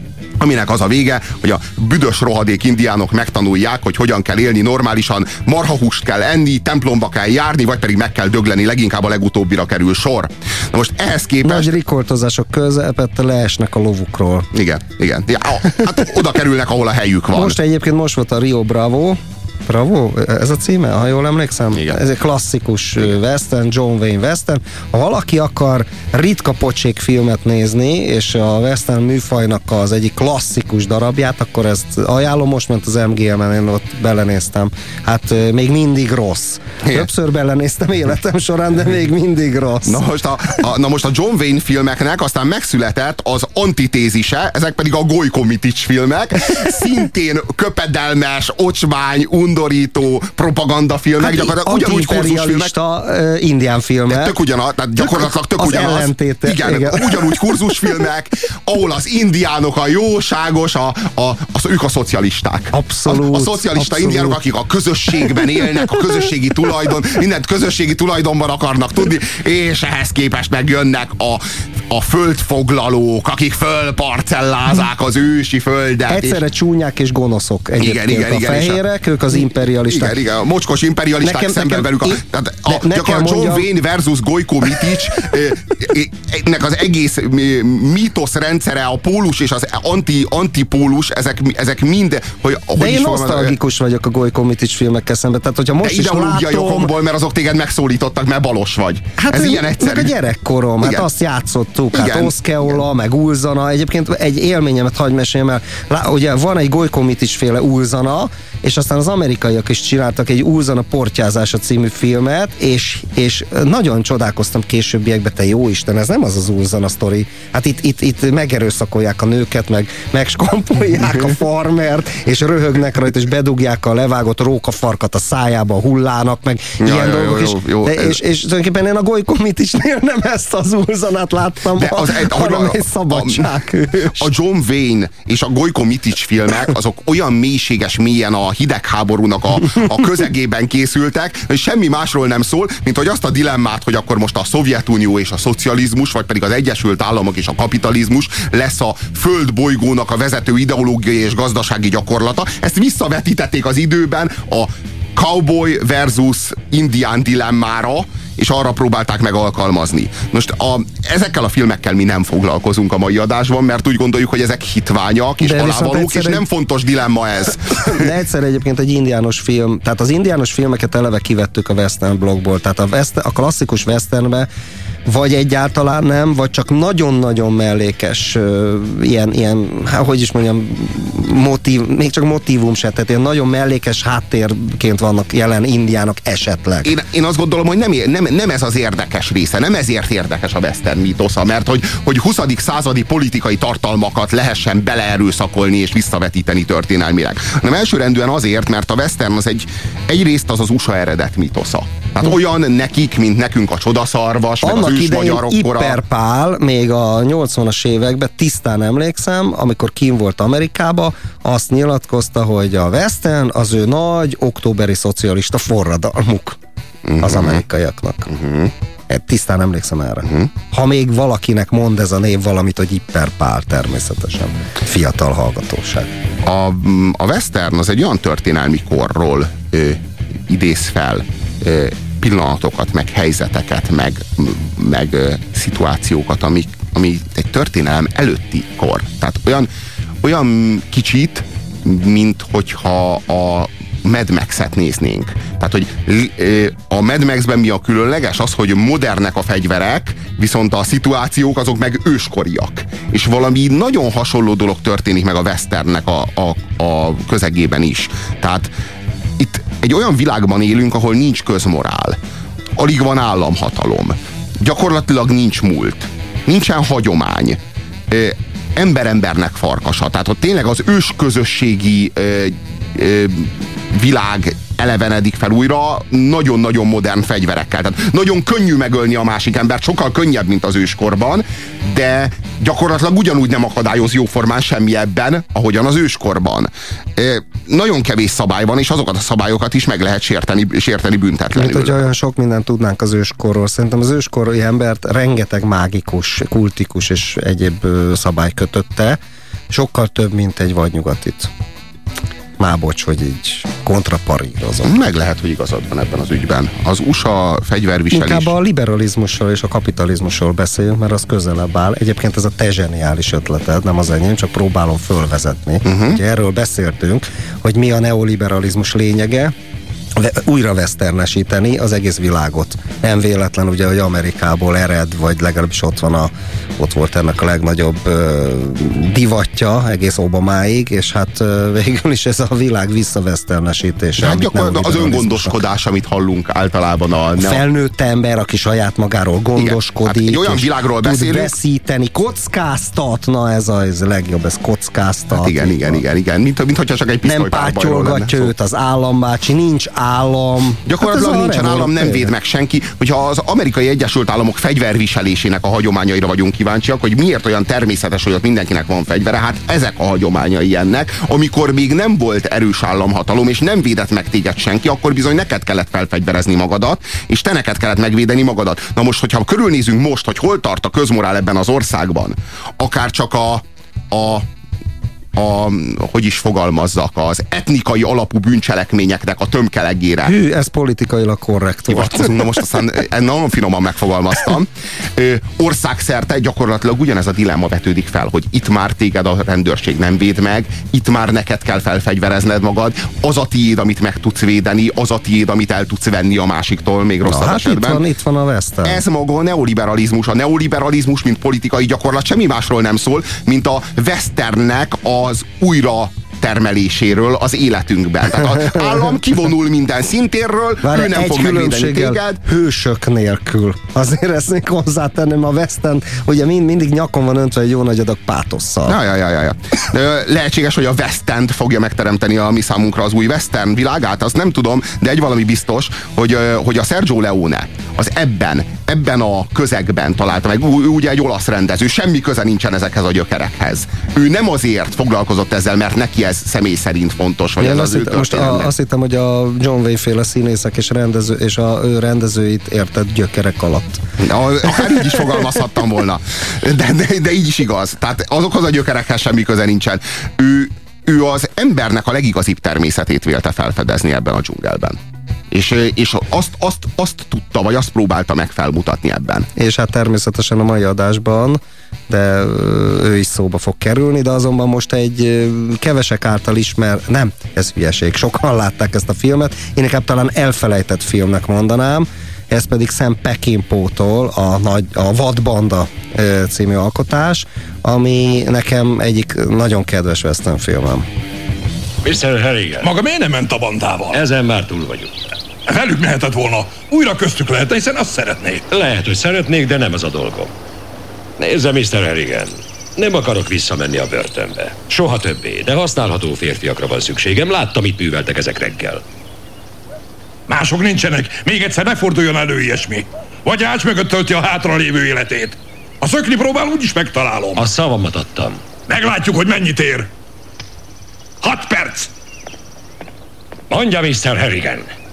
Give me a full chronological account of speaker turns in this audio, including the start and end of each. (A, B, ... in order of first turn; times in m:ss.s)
0:00.4-0:11.7 A
0:11.4-0:14.5 B
0:14.5-0:17.6 A
0:17.3-0:40.0 B
0:21.7-0:22.0 A
0:39.8-0:52.8 A
0:51.2-0:54.3 B
0:54.1-1:16.4 A
0:55.0-0:57.8 B
1:02.7-1:04.4 B
1:16.1-1:20.2 B
1:17.8-1:18.8 A
1:19.9-1:33.6 A
1:21.2-1:23.7 B
1:32.8-1:36.9 B
1:35.8-1:40.1 A
1:39.2-2:14.3 B
1:40.8-1:41.1 A
1:41.9-1:42.8 A
2:06.8-2:08.2 A
2:11.8-2:48.1 A
2:45.4-2:46.4 B
2:47.7-2:54.5 B
2:55.1-3:06.9 B
3:06.8-3:26.0 A
3:24.6-3:36.6 B
3:37.1-3:37.6 A
3:37.2-3:38.3 B
3:38.3-3:38.7 A
3:39.1-3:46.1 B
3:46.4-3:59.7 A
4:00.2-4:18.7 A
4:19.4-4:22.2 A
4:22.8-4:27.6 A
4:28.1-4:52.0 A
4:51.6-4:59.2 B
4:59.7-5:01.5 B
5:02.6-5:05.0 B
5:04.8-5:08.5 A
5:08.1-5:19.5 B
5:15.8-5:16.2 A
5:20.2-5:35.6 B
5:34.2-5:37.6 A
5:37.4-5:46.0 B
5:39.6-5:41.5 A
5:45.3-5:48.5 A
5:47.2-5:52.3 B
5:50.9-6:14.4 A
6:15.4-6:20.3 A
6:20.3-6:22.4 B
6:21.9-6:38.0 A
6:37.2-6:39.0 B
6:38.8-6:52.4 A
6:48.6-6:49.1 B
6:50.8-6:59.0 B
6:58.9-7:18.7 A
7:17.6-7:24.0 B
7:24.2-7:35.0 A
7:24.8-7:25.2 B
7:35.5-7:39.5 A
7:39.6-8:01.0 B
8:02.0-8:02.9 C
8:02.8-8:04.2 D
8:04.1-8:05.2 C
8:05.7-8:08.6 D
8:08.7-8:10.5 C
8:11.4-8:19.0 C
8:20.5-8:27.6 D
8:27.6-8:28.6 C
8:28.9-8:30.1 D
8:31.4-8:32.1 D
8:33.7-8:34.9 C